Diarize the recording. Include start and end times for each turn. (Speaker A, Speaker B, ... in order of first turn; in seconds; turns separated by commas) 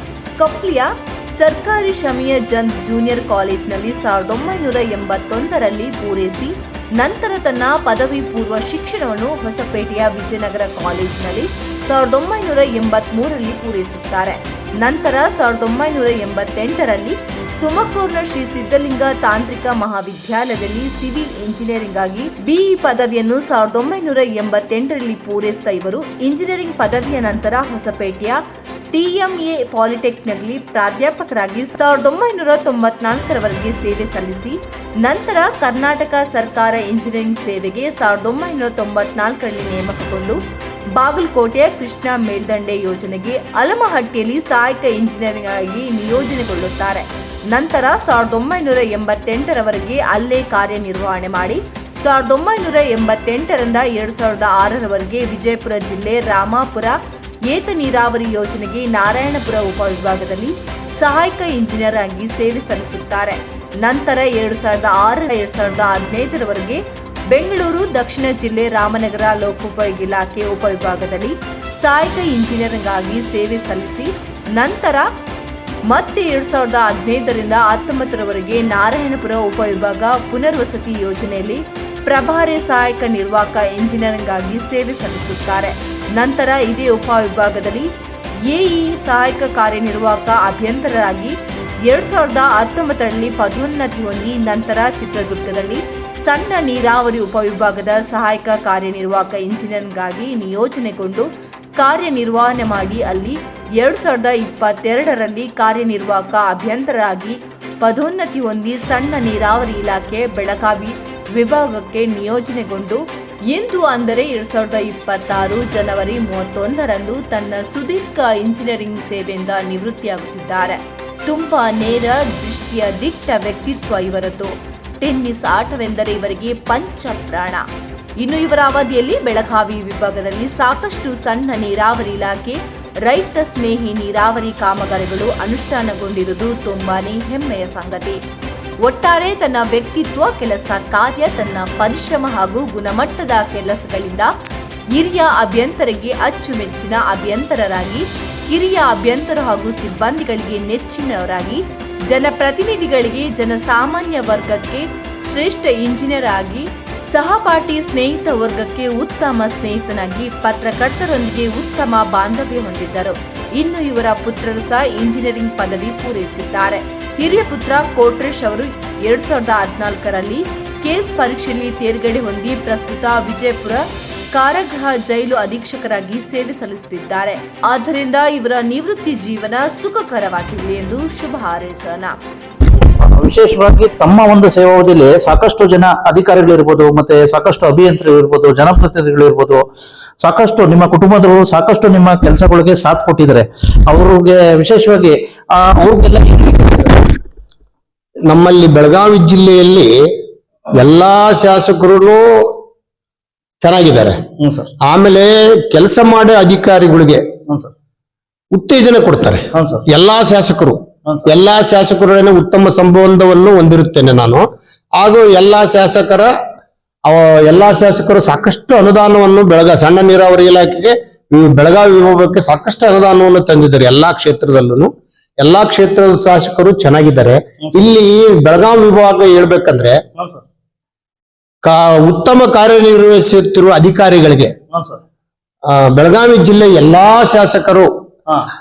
Speaker A: 0.4-28.4, Speaker A: 28.9-40.4, Speaker A: 41.0-57.0, Speaker A: 57.5-75.1, Speaker A: 75.9-87.9, Speaker A: 88.5-101.3, Speaker A: 101.8-127.7, Speaker A: 128.2-138.2, Speaker A: 138.8-144.3, Speaker A: 144.9-182.2, Speaker B: 182.7-189.6, Speaker B: 190.2-197.1, Speaker C: 198.3-200.1, Speaker C: 200.7-202.6, Speaker C: 203.6-204.2, Speaker B: 204.4-204.7, Speaker C: 204.8-207.2, Speaker C: 208.5-216.3, Speaker B: 209.5-209.8, Speaker B: 211.1-211.3, Speaker C: 217.1-224.9, Speaker C: 225.4-230.0, Speaker B: 230.2-230.4, Speaker C: 231.6-234.5, Speaker B: 234.7-235.0, Speaker C: 235.7-237.9